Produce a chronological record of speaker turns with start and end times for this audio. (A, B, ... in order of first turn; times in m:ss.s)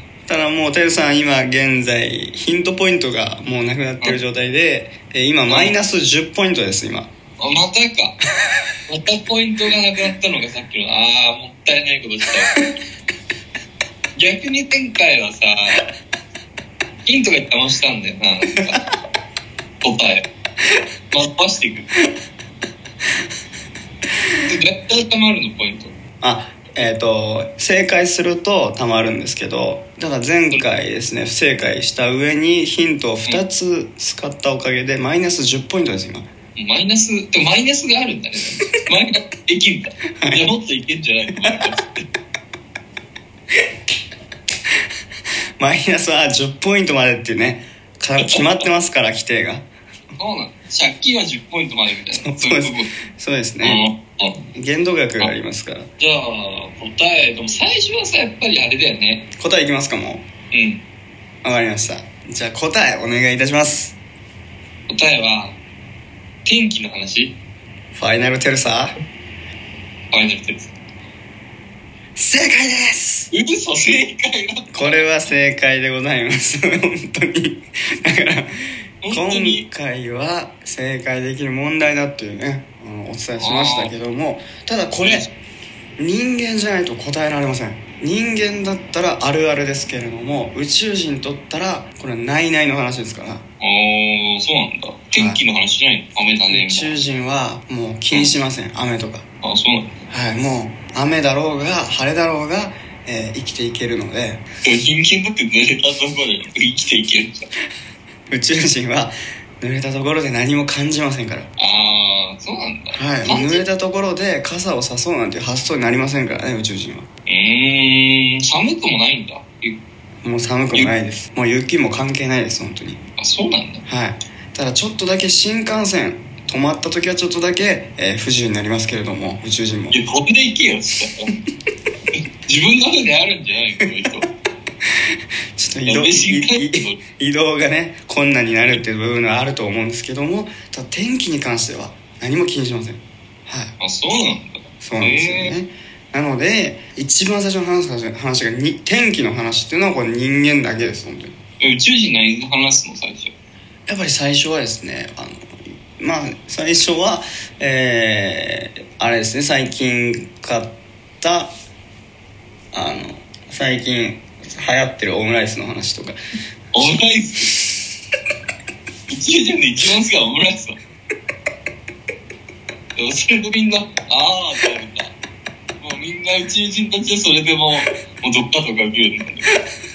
0:00.3-0:07.1 A
0:05.5-0:05.8 B
0:07.4-0:08.2 B
0:08.9-0:12.5 B
0:14.2-0:15.8 B
0:17.0-0:18.8 B
0:19.8-0:20.3 B
0:21.1-0:21.9 B
0:24.4-0:25.9 B
0:26.2-0:36.3 A
0:36.6-0:42.0 B
0:40.2-0:40.5 A
0:45.6-0:49.7 A
0:50.2-0:52.9 B
0:52.1-0:53.9 A
0:53.6-0:54.4 B
0:54.5-0:55.9 A
0:56.0-0:59.3 B
0:59.4-1:00.3 A
1:00.5-1:00.8 B
1:01.4-1:04.0 A
1:04.9-1:05.6 B
1:06.4-1:07.4 B
1:07.9-1:09.0 A
1:10.1-1:10.7 B
1:12.2-1:13.3 A
1:13.3-1:15.1 B
1:14.7-1:18.5 A
1:19.0-1:19.7 B
1:19.1-1:25.3 A
1:23.4-1:23.9 B
1:25.0-1:25.3 B
1:26.0-1:33.4 A
1:33.6-1:37.0 B
1:35.2-1:35.4 A
1:36.5-1:39.2 A
1:39.4-1:40.0 B
1:40.1-1:44.4 A
1:44.6-1:47.5 B
1:48.3-1:51.5 A
1:51.6-1:53.6 B
1:52.9-1:57.1 A
1:57.3-1:59.8 B
2:00.2-2:03.0 A
2:03.2-2:03.8 B
2:03.9-2:10.0 A
2:09.9-2:11.3 B
2:12.5-2:14.3 B
2:15.6-2:23.8 A
2:15.9-2:17.0 B
2:23.8-2:25.6 B
2:24.8-2:31.3 A
2:31.6-2:33.3 B
2:33.9-2:41.5 A
2:42.7-2:46.2 A
2:46.7-2:47.6 B
2:49.1-2:50.8 B
2:53.0-2:55.1 B
2:55.8-2:59.5 B